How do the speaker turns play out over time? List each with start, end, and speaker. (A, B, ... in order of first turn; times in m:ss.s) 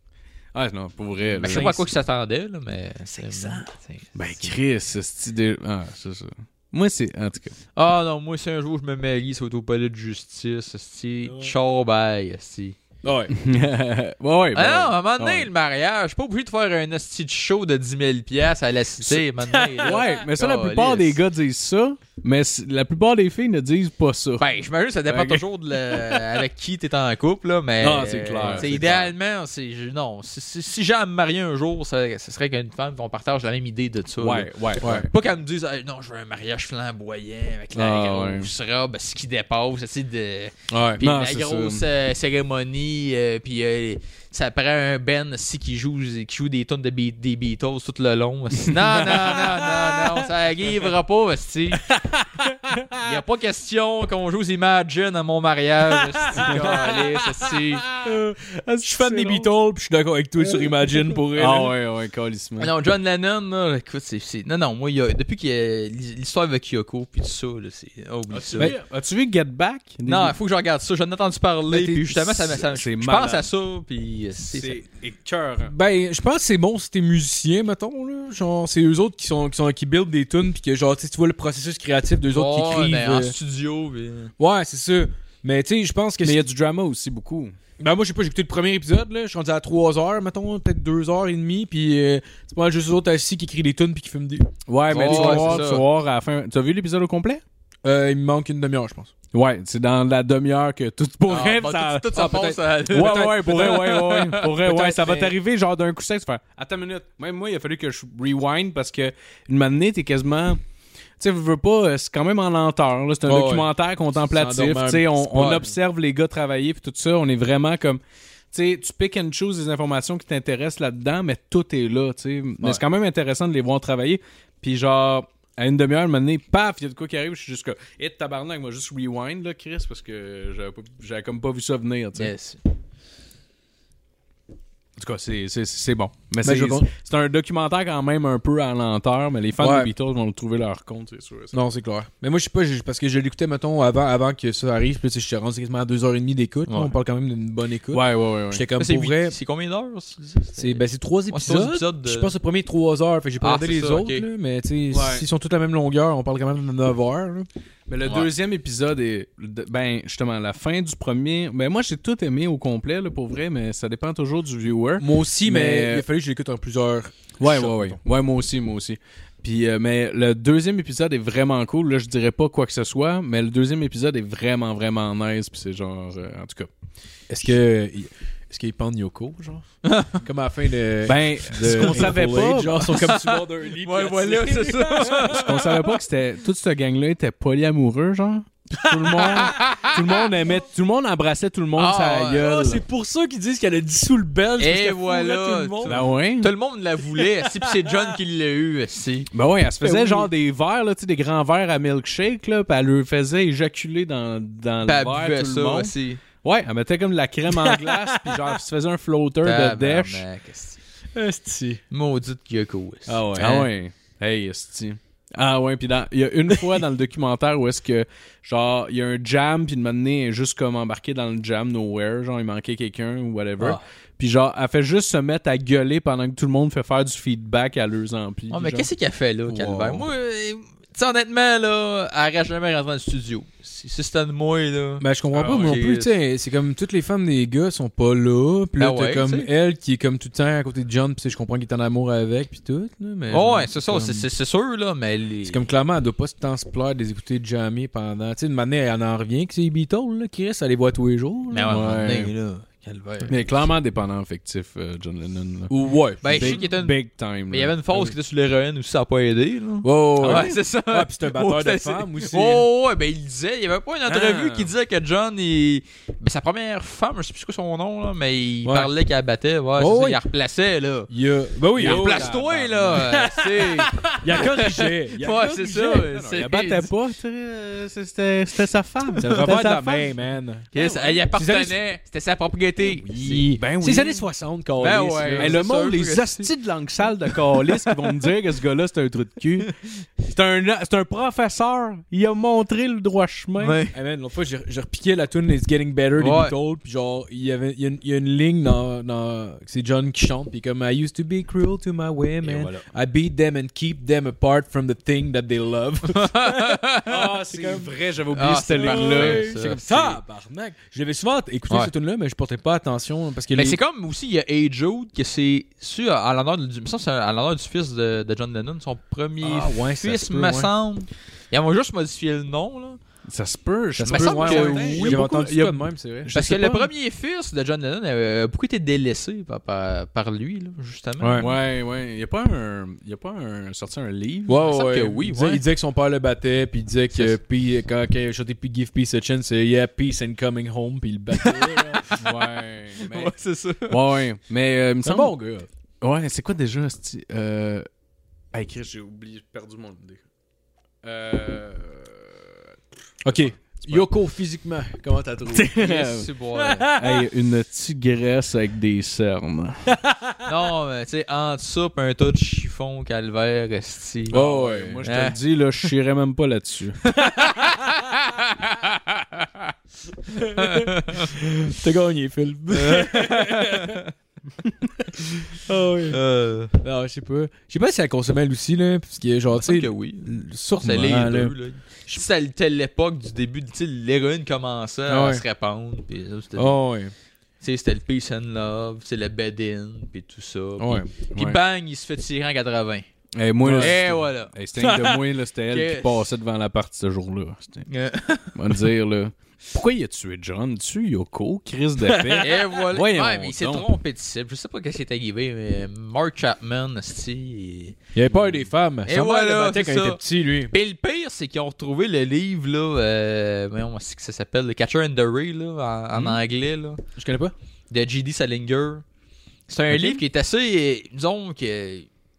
0:00.5-0:01.8 A
0:01.4-0:04.5 B
0:01.4-0:01.8 C
0:03.2-0:03.6 C
0:04.1-0:07.6 A
0:07.8-0:12.8 B
0:11.2-0:11.5 C
0:13.0-0:13.3 C
0:13.3-0:15.5 A
0:14.5-0:21.2 B
0:19.4-0:19.8 C
0:19.8-0:24.4 A
0:24.4-0:51.9 B
0:25.0-0:25.4 A
0:27.8-0:29.1 A
0:27.8-0:29.0 C
0:34.2-0:35.1 A
0:34.8-0:35.1 C
0:37.7-0:38.5 A
0:40.7-0:41.0 C
0:41.0-0:41.8 A
0:48.6-0:50.2 A
0:51.8-0:53.0 A
0:53.0-0:57.9 B
0:56.3-0:57.0 C
0:56.3-0:59.5 A
0:58.0-1:01.7 C
1:00.4-1:02.7 A
1:02.6-1:08.7 B
1:08.3-1:10.4 A
1:10.0-1:14.8 B
1:11.7-1:12.2 C
1:12.4-1:13.5 A
1:14.4-1:15.7 A
1:15.6-1:23.3 C
1:22.3-1:24.3 B
1:24.4-1:26.5 C
1:26.2-1:27.5 A
1:27.8-1:35.7 C
1:34.7-1:37.4 A
1:34.9-1:35.8 B
1:37.8-1:39.1 C
1:39.3-1:42.2 A
1:41.3-1:44.6 B
1:42.1-1:44.0 C
1:42.9-1:50.6 A
1:44.6-1:45.3 C
1:51.2-1:58.0 A
1:53.2-1:53.7 C
1:54.3-1:55.7 C
1:58.5-2:12.3 A
2:12.2-2:12.6 B
2:15.0-2:21.6 A
2:16.4-2:16.9 C
2:19.6-2:19.9 C
2:21.5-2:29.4 C
2:27.9-2:28.6 A
2:28.8-2:32.3 B
2:30.6-2:37.5 C
2:33.4-2:34.2 B
2:34.9-2:35.2 A
2:37.9-2:46.0 A
2:45.0-2:48.0 C
2:47.4-2:56.7 A
2:57.3-3:05.6 C
2:59.8-3:00.1 B
3:01.0-3:03.0 A
3:03.0-3:05.8 B
3:05.3-3:12.8 A
3:08.8-3:10.3 C
3:09.2-3:10.0 B
3:11.8-3:12.5 B
3:12.3-3:16.0 C
3:14.6-3:19.3 B
3:15.8-3:16.5 A
3:19.3-3:30.2 A
3:19.8-3:20.3 C
3:24.8-3:26.2 B
3:27.5-3:28.6 C
3:29.4-3:30.8 B
3:31.1-3:31.8 C
3:31.9-3:33.2 B
3:33.1-3:33.7 C
3:33.3-3:48.9 A
3:48.5-3:56.1 B
3:49.5-3:50.0 A
3:55.0-4:04.3 C
3:55.3-3:55.8 A
3:58.8-3:59.5 B
4:03.3-4:05.6 B
4:05.4-4:11.8 C
4:11.5-4:13.4 B
4:11.7-4:12.3 A
4:13.3-4:17.8 A
4:15.7-4:16.6 C
4:16.2-4:31.1 B
4:19.8-4:22.7 C
4:20.2-4:20.6 A
4:24.1-4:24.7 A
4:28.6-4:28.9 C
4:29.8-4:30.2 C
4:31.1-4:36.2 C
4:31.7-4:36.9 B
4:31.8-4:33.1 A
4:36.1-4:40.1 A
4:39.2-4:41.8 C
4:40.7-4:43.6 B
4:43.0-4:45.6 C
4:43.5-4:44.2 A
4:44.8-4:46.5 B
4:45.3-4:53.8 A
4:47.3-4:47.9 B
4:53.6-4:53.9 B
4:53.9-5:07.9 C
4:56.2-4:56.5 B
5:02.4-5:02.8 B
5:06.1-5:07.2 B
5:07.0-5:09.5 A
5:08.3-5:10.2 B
5:08.7-5:13.8 C
5:13.5-5:23.0 B
5:19.4-5:20.7 C
5:23.3-5:26.7 A
5:23.9-5:26.9 C
5:24.0-5:25.2 B
5:26.3-5:31.5 B
5:31.2-5:31.5 C
5:31.4-5:34.6 A
5:34.5-5:42.2 C
5:34.7-5:35.6 B
5:41.4-5:42.3 B
5:42.2-5:43.3 A
5:43.0-5:44.0 B
5:43.9-5:45.3 A
5:45.0-5:45.7 C
5:46.0-5:47.9 A
5:48.5-5:50.2 A
5:51.0-5:52.6 A
5:53.2-5:57.2 C
5:53.4-5:54.1 A
5:55.5-5:56.3 A
5:55.7-5:56.9 B
5:57.0-6:00.0 A
5:59.9-6:00.4 C
6:00.4-6:04.4 B
6:04.3-6:07.0 A
6:04.3-6:05.0 C
6:05.0-6:05.4 B
6:07.2-6:09.2 B
6:07.3-6:08.0 C
6:10.3-6:14.0 C
6:10.5-6:11.3 B
6:12.7-6:14.1 B
6:15.2-6:16.2 C
6:16.1-6:16.8 B
6:16.8-6:21.6 C
6:19.5-6:26.8 B
6:25.1-6:25.4 C
6:26.6-6:27.1 C
6:27.6-6:33.1 B
6:30.8-6:31.1 C
6:33.3-6:37.9 A
6:33.6-6:33.9 C
6:33.7-6:34.5 B
6:34.8-6:35.2 C
6:35.7-6:36.3 B
6:37.9-6:38.7 B
6:38.5-6:43.9 A
6:42.1-6:42.4 C
6:42.4-6:48.0 B
6:48.1-6:50.7 C
6:48.3-6:48.7 A
6:49.0-6:57.0 B
6:57.2-6:57.5 C
6:57.9-6:59.0 B
6:59.7-7:02.1 B